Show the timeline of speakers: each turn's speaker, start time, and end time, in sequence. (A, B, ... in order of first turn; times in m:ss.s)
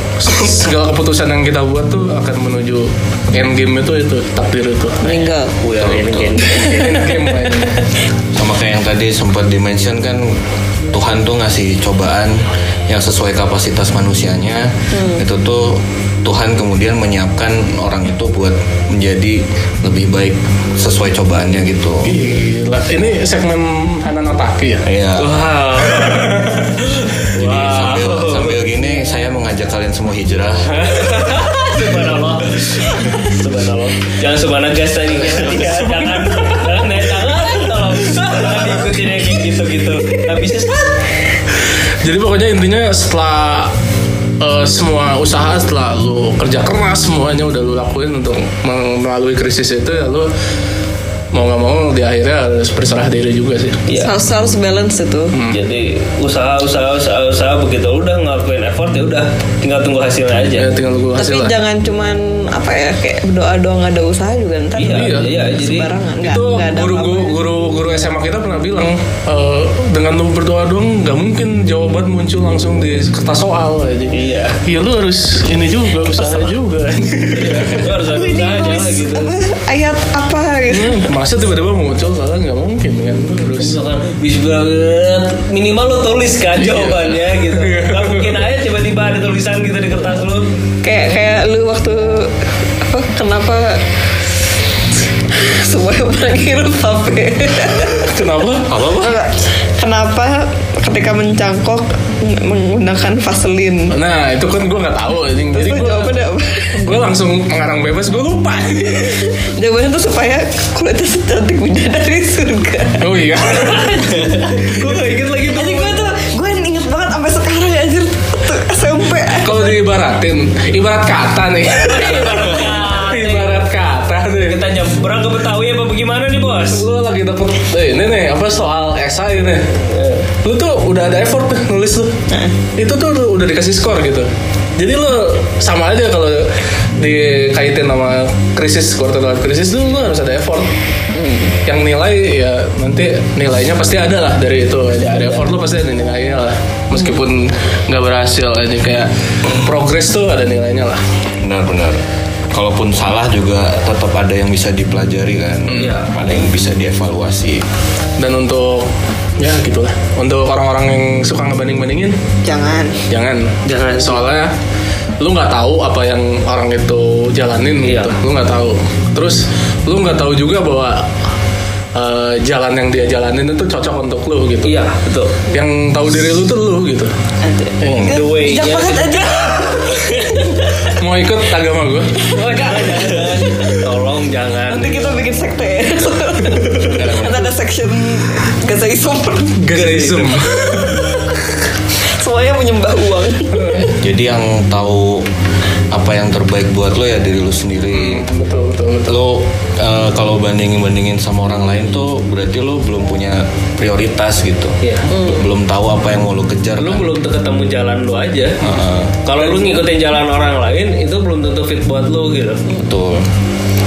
0:00.2-0:05.0 A
0:05.0-0:05.6 B
0:05.6-0:07.6 C
0:05.8-0:06.5 D
0:06.6-0:07.8 A
0:08.3-0:10.3 D
0:10.9-0:22.2 D
0:14.9-0:15.2 B
0:22.0-0:24.8 A
0:24.8-0:25.5 D
0:25.2-0:26.4 C
0:25.8-0:27.0 A
0:27.2-0:28.6 C
0:27.3-0:30.8 D
0:30.7-0:40.9 C
0:35.3-0:36.5 A
0:42.0-0:43.7 A
0:44.4-0:50.3 A
0:51.3-0:53.8 A
0:53.9-0:54.1 C
0:54.0-0:55.3 B
0:55.3-0:55.6 A
0:55.5-1:00.7 C
1:00.6-1:01.5 A
1:01.2-1:07.4 B
1:04.8-1:05.9 C
1:04.8-1:05.3 A
1:06.2-1:17.9 A
1:14.1-1:14.6 C
1:17.3-1:19.3 C
1:18.0-1:21.0 B
1:20.7-1:23.8 A
1:23.4-1:30.5 C
1:26.5-1:28.5 A
1:30.8-1:33.8 B
1:35.3-1:38.1 B
1:38.0-1:38.7 A
1:38.7-1:39.1 D
1:38.9-1:43.9 B
1:43.9-1:46.1 A
1:45.5-1:46.9 B
1:46.7-1:49.3 A
1:49.3-1:53.1 B
1:53.0-1:56.0 A
1:55.5-1:59.7 B
1:59.4-2:04.7 A
2:01.7-2:03.6 C
2:04.4-2:06.8 C
2:06.7-2:09.8 A
2:09.9-2:10.2 C
2:10.3-2:12.1 A
2:12.3-2:12.5 B
2:12.8-2:20.7 A
2:21.1-2:21.6 B
2:21.6-2:31.0 A
2:25.1-2:25.5 C
2:31.4-2:32.0 D
2:32.5-2:37.6 D
2:35.7-2:35.9 A
2:35.7-2:36.1 C
2:38.2-2:42.2 A
2:42.4-2:42.9 B
2:43.1-2:44.5 A
2:43.6-2:44.3 C
2:45.2-2:51.1 A
2:47.8-2:48.2 C
2:51.9-2:54.8 A
2:54.6-2:55.4 C
2:55.5-2:57.1 A
2:57.4-3:00.3 B
2:57.8-2:58.2 A
2:58.1-3:00.9 C
3:01.0-3:02.2 A
3:02.3-3:05.1 C
3:02.3-3:03.8 B
3:04.7-3:09.7 B
3:06.7-3:07.5 D
3:09.6-3:11.1 A
3:09.7-3:10.4 C
3:10.8-3:11.1 B
3:12.0-3:13.9 B
3:13.5-3:14.0 A
3:13.9-3:15.2 D
3:15.9-3:18.3 D
3:17.9-3:19.2 A
3:19.1-3:27.1 D
3:24.8-3:25.1 C
3:25.1-3:25.4 B
3:26.8-3:28.6 C
3:28.6-3:29.2 D
3:29.2-3:32.6 C
3:29.4-3:29.8 A
3:32.8-3:33.3 D